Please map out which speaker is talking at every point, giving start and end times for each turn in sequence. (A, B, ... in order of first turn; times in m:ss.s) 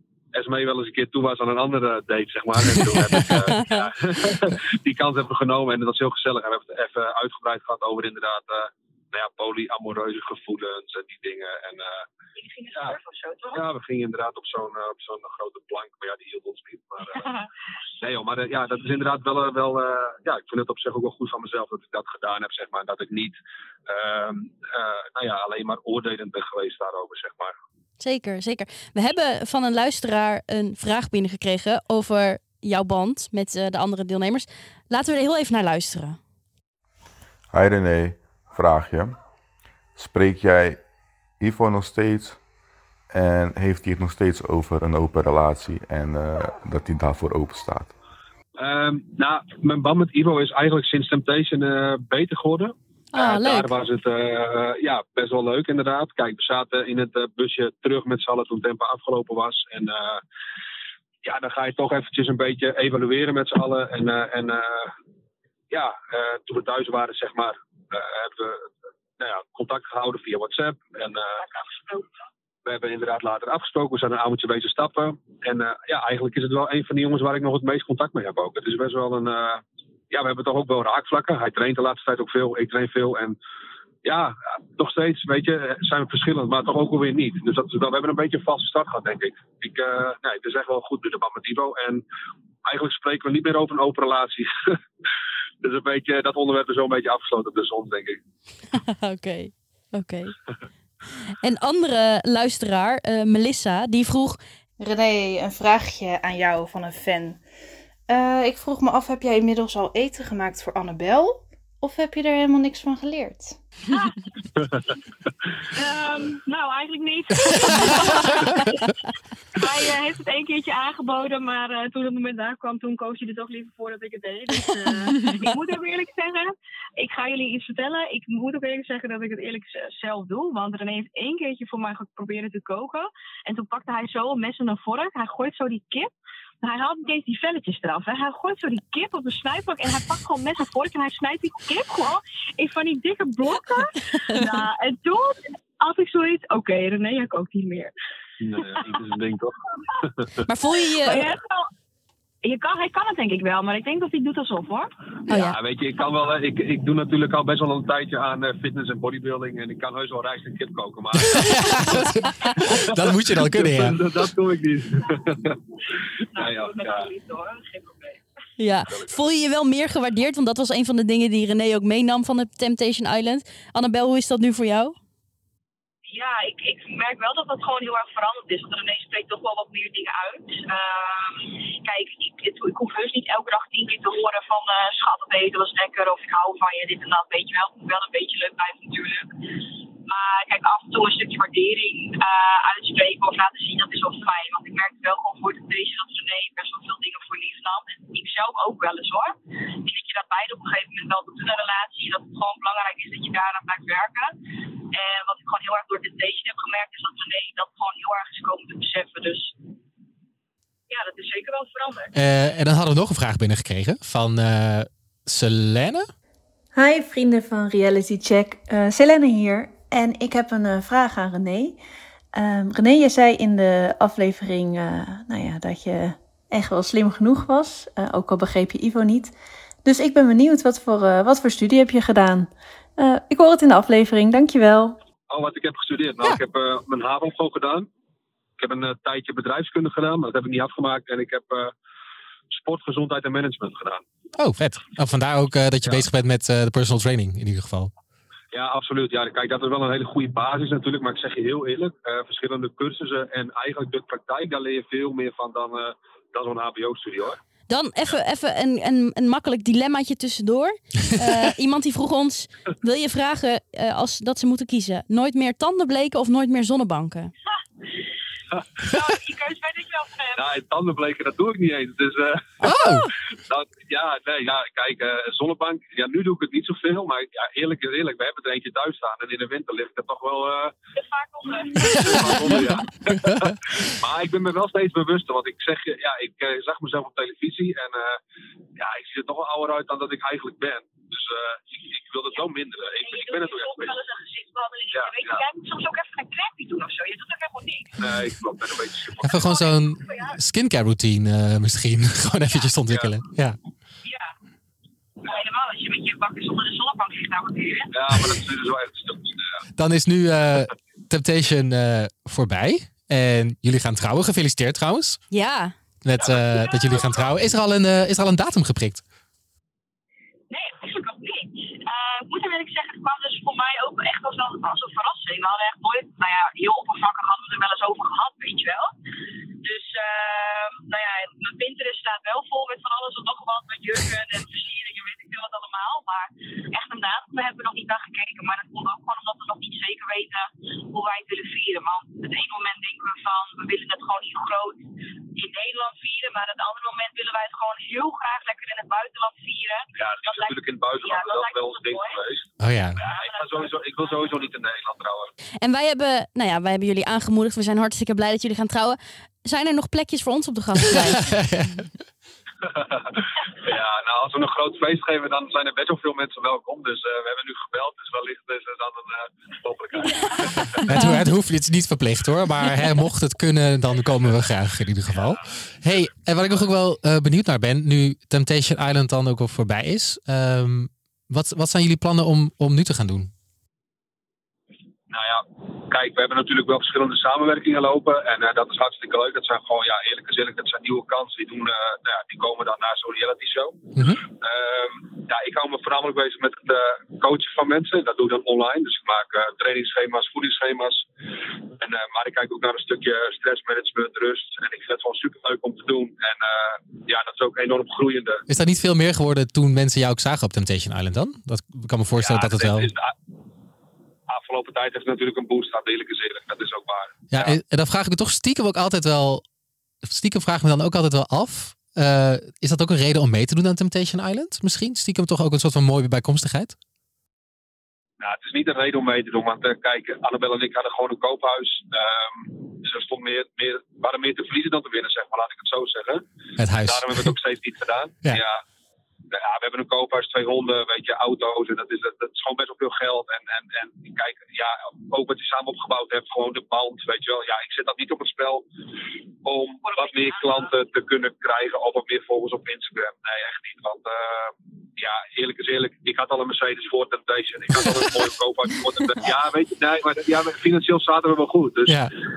0:00.3-0:12.0 A
0:03.0-0:03.4 B
0:12.4-0:13.6 C
0:13.5-0:17.2 A
0:17.1-0:17.5 C
0:18.0-0:27.5 A
0:28.0-0:36.2 D
0:37.5-0:39.2 E
0:40.0-0:40.8 E
0:41.4-0:42.4 E
0:43.1-0:47.9 E
0:48.6-1:00.2 A
0:53.1-0:53.7 D
1:01.2-1:04.9 A
1:05.7-1:11.4 A
1:11.4-1:12.1 C
1:12.6-1:23.4 A
1:24.0-1:32.0 A
1:32.6-1:34.8 A
1:35.6-1:38.2 A
1:38.7-1:40.4 D
1:41.4-1:44.4 D
1:44.8-1:47.4 F
1:48.1-1:53.6 F
1:53.9-1:54.2 C
1:55.7-1:58.9 C
1:59.6-2:16.1 C
2:16.6-2:27.9 C
2:28.4-2:30.2 A
2:28.6-2:29.0 C
2:30.5-2:31.3 D
2:31.0-2:31.7 C
2:32.4-2:34.9 C
2:35.3-2:35.6 D
2:35.3-2:45.5 A
2:41.3-2:44.0 B
2:46.3-2:48.2 C
2:46.3-2:47.1 A
2:48.6-2:55.0 D
2:56.1-3:09.4 C
3:10.1-3:24.3 C
3:24.9-3:29.5 C
3:30.9-3:32.1 C
3:32.1-3:36.1 B
3:36.7-3:41.8 G
3:42.3-3:55.0 G
3:55.3-3:57.9 A
3:58.6-4:01.7 A
4:02.5-4:04.0 A
4:04.4-4:07.9 B
4:08.5-4:17.4 A
4:17.7-4:27.3 D
4:28.8-4:30.5 C
4:30.4-4:32.5 A
4:32.6-4:33.1 B
4:32.6-4:33.0 D
4:33.4-4:40.8 A
4:41.0-4:42.7 C
4:41.8-4:48.2 A
4:48.8-4:53.9 A
4:53.0-4:58.3 C
4:54.9-4:55.4 A
4:58.0-4:59.6 A
4:59.2-5:03.6 B
4:59.3-5:00.4 C
5:02.5-5:02.8 C
5:04.0-5:04.3 C
5:05.2-5:08.3 C
5:07.9-5:09.6 A
5:09.7-5:15.2 B
5:15.3-5:15.7 D
5:16.0-5:19.0 B
5:16.4-5:17.2 C
5:20.5-5:28.9 C
5:29.6-5:44.8 C
5:45.4-5:52.2 C
5:50.0-5:55.3 A
5:52.6-5:53.0 B
5:53.0-5:54.3 C
5:55.6-6:01.3 D
6:01.2-6:01.9 B
6:02.6-6:10.8 A
6:10.0-6:10.8 C
6:10.8-6:23.3 B
6:25.1-6:41.1 A
6:41.8-6:48.4 A
6:48.5-6:52.9 B
6:52.1-6:53.1 A
6:54.3-6:57.6 A
6:57.3-6:59.4 B
7:00.0-7:06.8 B
7:08.2-7:16.2 A
7:16.6-7:17.3 B
7:16.8-7:18.6 A
7:19.3-7:28.6 A
7:29.4-7:42.0 A
7:29.8-7:30.8 C
7:41.8-7:42.1 B